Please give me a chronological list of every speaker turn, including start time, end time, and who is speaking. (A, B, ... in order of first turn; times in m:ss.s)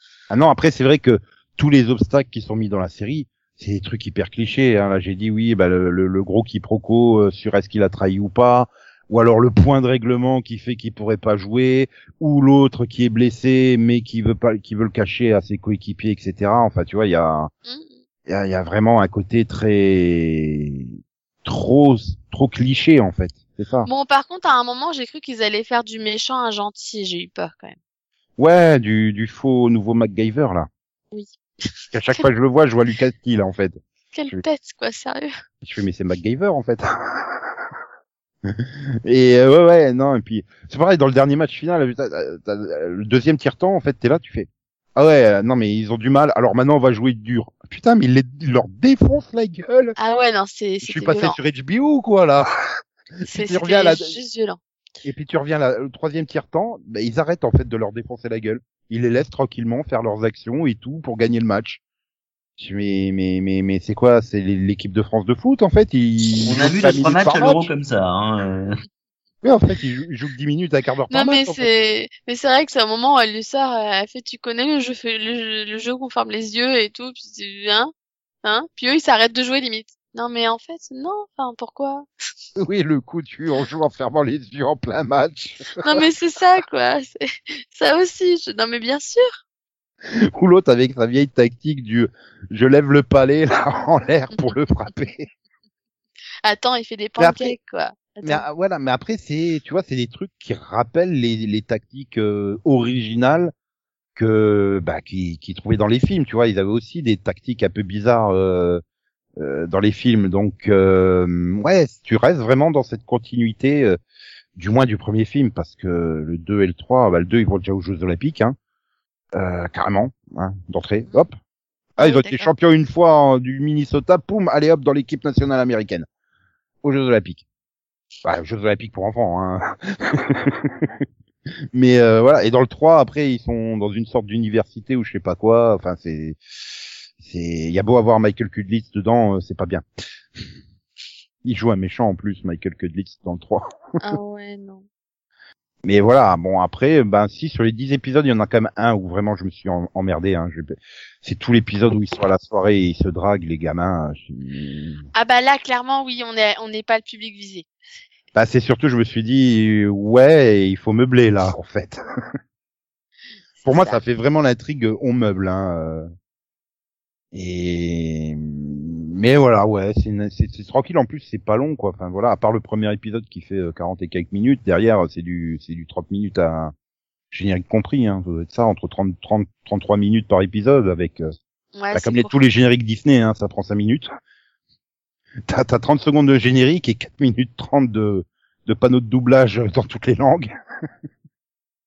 0:00.3-0:17.5 A
0:17.6-0:18.0 B
0:18.3-0:20.9 A
0:21.4-0:23.9 A
0:23.8-0:27.8 B
0:28.4-0:30.7 A
0:31.9-0:34.4 A
0:34.1-0:35.3 B
0:35.6-0:37.5 A
0:38.5-0:49.9 A
0:50.0-0:51.4 B
0:50.8-0:52.5 A
0:53.2-0:54.1 A
0:53.3-0:54.6 B
0:55.0-1:01.8 A
1:02.6-1:07.7 A
1:06.4-1:08.7 C
1:09.4-1:11.7 A
1:11.1-1:17.9 B
1:18.4-1:22.1 B
1:22.6-1:26.0 A
1:25.8-1:29.4 B
1:30.3-1:35.3 A
1:36.4-1:38.4 B
1:37.2-1:37.6 A
1:38.2-1:43.5 A
1:44.2-1:48.8 A
1:49.4-1:54.0 A
1:54.6-1:58.6 A
1:59.3-2:01.4 A
2:02.0-2:06.1 A
2:02.0-2:02.5 B
2:06.8-2:07.4 A
2:08.2-2:10.9 A
2:11.7-2:16.4 A
2:17.2-2:19.8 A
2:21.4-2:24.1 A
2:24.0-2:24.8 B
2:25.8-2:35.0 A
2:35.1-2:37.7 B
2:38.3-2:42.0 A
2:43.6-2:44.0 B
2:43.6-2:46.1 A
2:47.3-2:56.7 A
2:57.3-3:01.3 A
3:01.7-3:02.3 B
3:01.9-3:04.1 A
3:05.5-3:10.5 A